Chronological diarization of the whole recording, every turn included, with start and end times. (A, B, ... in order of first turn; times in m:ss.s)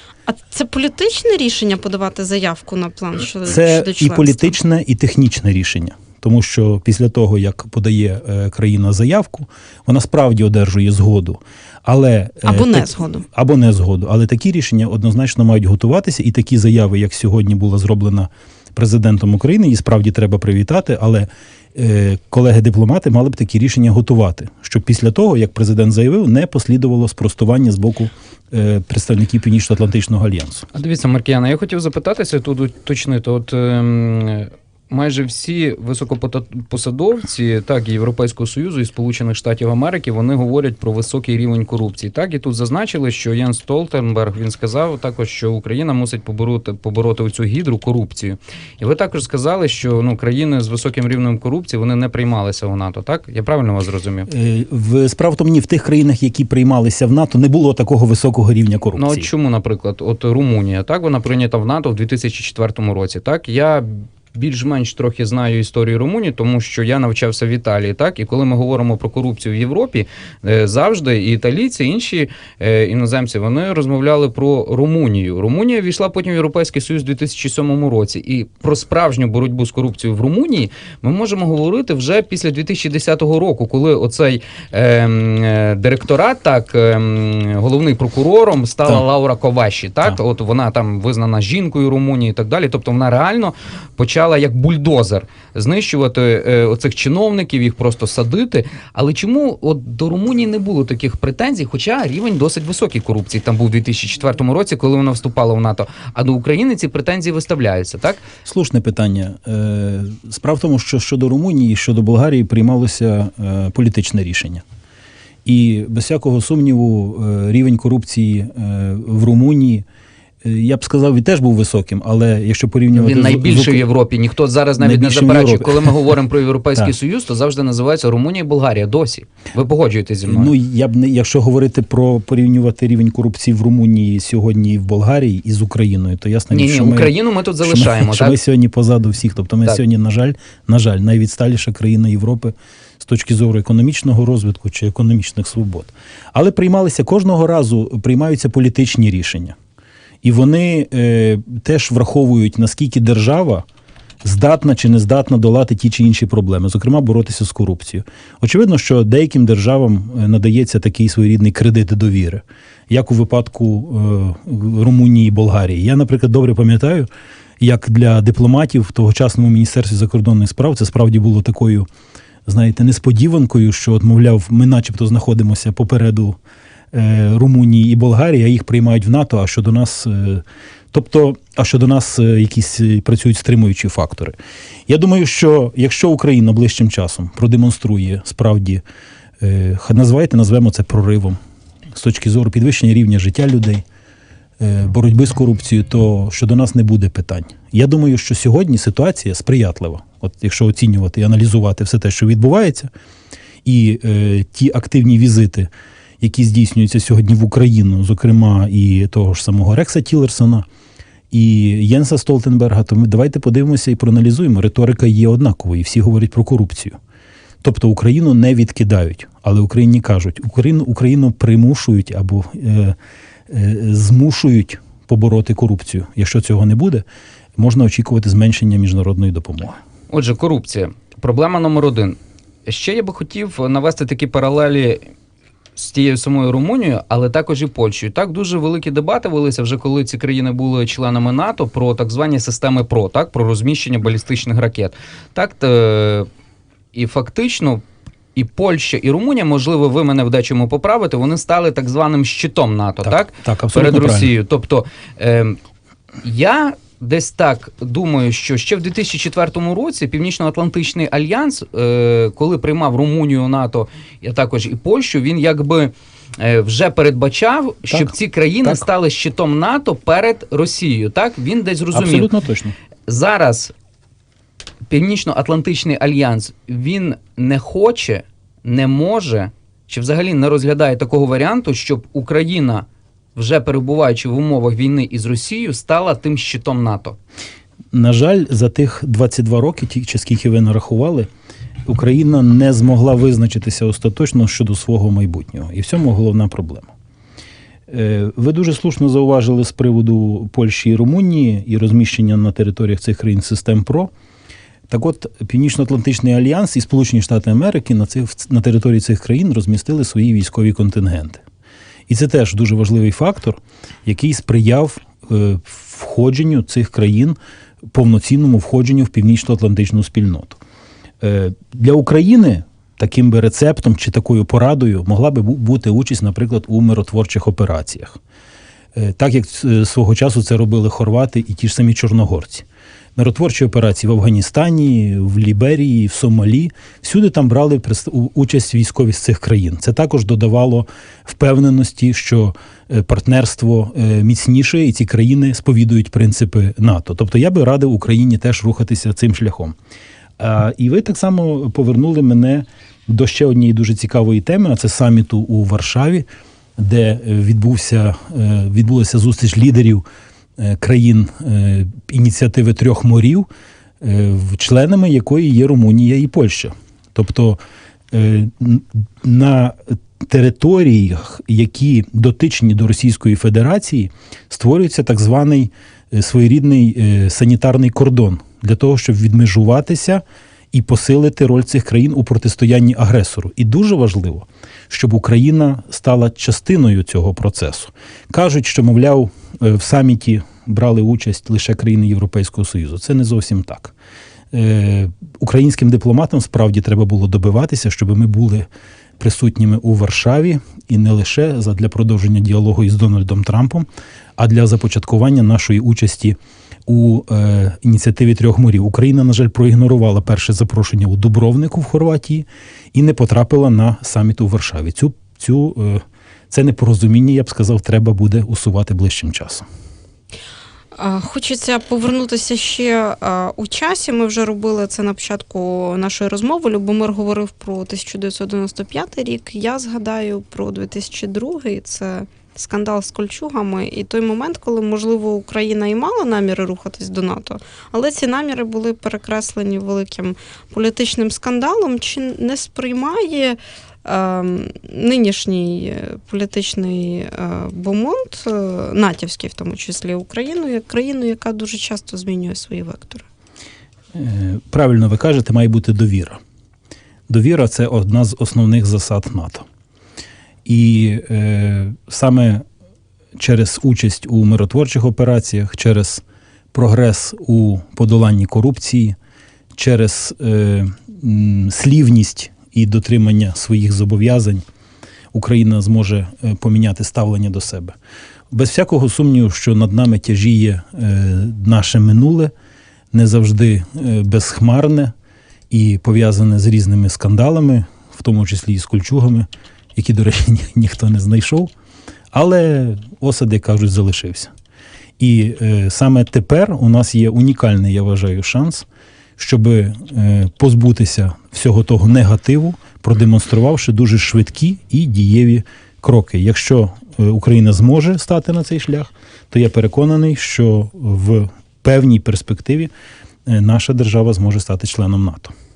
0:00.3-0:04.6 A
0:03.5-0:30.7 B
0:12.4-0:13.2 A
0:30.7-0:54.3 C
0:54.3-0:59.3 B
0:59.0-1:48.2 C
1:48.4-1:54.6 B
1:55.4-1:59.8 B
2:00.4-2:03.8 B
2:02.9-2:10.5 C
2:04.8-2:05.9 B
2:10.2-2:29.6 B
2:16.5-2:18.4 C
2:30.2-2:33.6 B
2:34.2-2:47.1 B
2:47.6-2:51.9 B
2:52.5-2:56.4 B
2:56.9-3:04.4 B
3:04.9-3:08.8 B
3:09.4-3:11.4 B
3:11.9-3:13.8 B
3:14.6-3:22.9 B
3:23.6-3:25.7 B
3:26.2-3:30.7 B
3:31.3-3:37.0 B
3:37.6-3:43.0 B
3:43.5-3:47.1 B
3:47.6-3:49.8 B
3:50.1-3:55.0 C
3:55.8-4:06.3 C
4:06.9-4:07.8 C
4:08.4-4:15.6 C
4:13.0-4:14.3 B
4:16.2-4:32.3 C
4:31.9-4:32.8 B
4:33.1-4:33.7 C
4:34.9-4:47.2 C
4:47.9-4:51.3 B
4:51.8-4:56.9 B
4:57.9-5:04.1 B
5:04.9-5:11.4 B
5:12.1-5:17.4 B
5:17.9-5:20.6 B
5:21.2-5:28.2 B
5:29.0-5:49.8 B
5:50.4-6:00.0 B
6:00.6-6:03.5 B
6:04.0-6:07.6 B
6:08.1-6:33.9 B
6:34.5-6:38.7 B
6:39.2-6:46.4 B
6:46.9-6:59.6 B
7:01.0-7:33.3 A
7:34.1-7:36.4 B
7:37.3-7:39.6 B
7:40.7-7:42.6 B
7:43.4-7:46.2 B
7:46.7-7:49.2 B
7:49.8-7:54.6 B
7:55.3-7:58.0 B
7:58.5-8:02.5 B
8:03.1-8:05.1 B
8:05.7-8:11.7 B
8:12.3-8:14.5 B
8:15.2-8:18.9 B
8:19.4-8:32.9 B
8:33.5-8:35.5 B